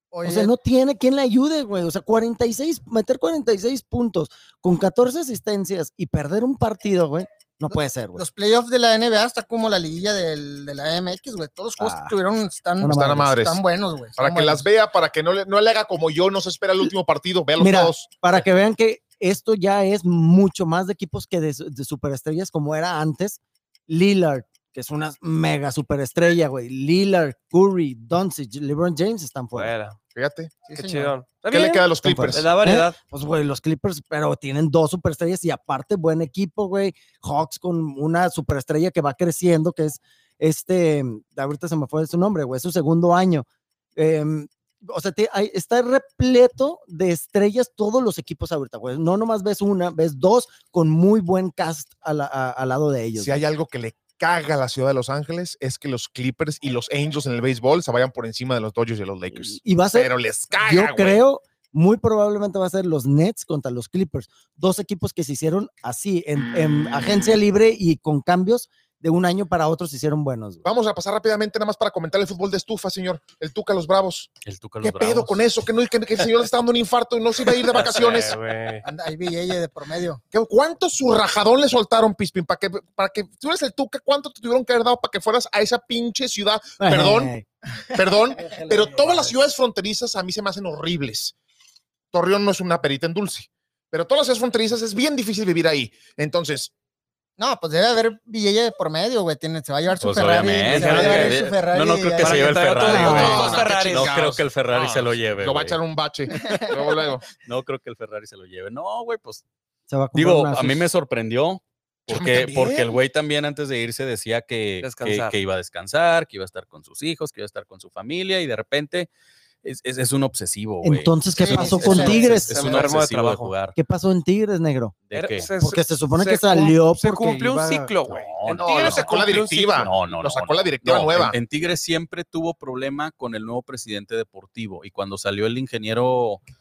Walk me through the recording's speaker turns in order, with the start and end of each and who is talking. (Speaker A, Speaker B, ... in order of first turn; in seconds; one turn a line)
Speaker A: 0.1-0.5
Speaker B: 0.2-8.2
Speaker A: 7.7-14.7
Speaker B: 11.8-12.1
Speaker B: 12.8-13.3
Speaker C: 12.8-13.6
Speaker C: 14.2-18.1
Speaker B: 17.6-29.7
Speaker D: 29.5-30.0
Speaker C: 30.1-30.6
Speaker A: 30.6-31.1
Speaker D: 30.8-33.0
Speaker C: 31.5-32.5
Speaker B: 32.0-53.4
Speaker C: 53.2-61.2
Speaker B: 59.3-70.6
Speaker C: 70.6-74.3
Speaker E: 74.4-75.4
Speaker C: 74.8-78.4
Speaker D: 77.7-78.8
Speaker A: 78.8-80.2
Speaker C: 80.3-87.3
Speaker B: 86.8-87.4
Speaker A: 87.8-88.8
Speaker C: 87.9-91.3
Speaker C: 92.1-96.7
Speaker A: 97.4-102.6
Speaker E: 100.0-105.8
Speaker D: 100.7-101.4
Speaker D: 102.2-104.4
Speaker C: 102.9-107.2
Speaker B: 102.9-103.5
Speaker A: 106.3-106.8
Speaker E: 107.4-109.4
Speaker B: 109.9-110.9
Speaker E: 110.1-119.1
Speaker C: 112.1-112.9
Speaker D: 114.8-115.3
Speaker E: 119.6-123.8
Speaker B: 120.8-122.9
Speaker A: 121.4-122.3
Speaker D: 121.6-123.5
Speaker B: 123.7-125.0
Speaker E: 125.1-125.5
Speaker D: 125.1-129.9
Speaker B: 125.6-127.9
Speaker E: 128.1-129.2
Speaker C: 128.5-131.4
Speaker E: 129.8-136.4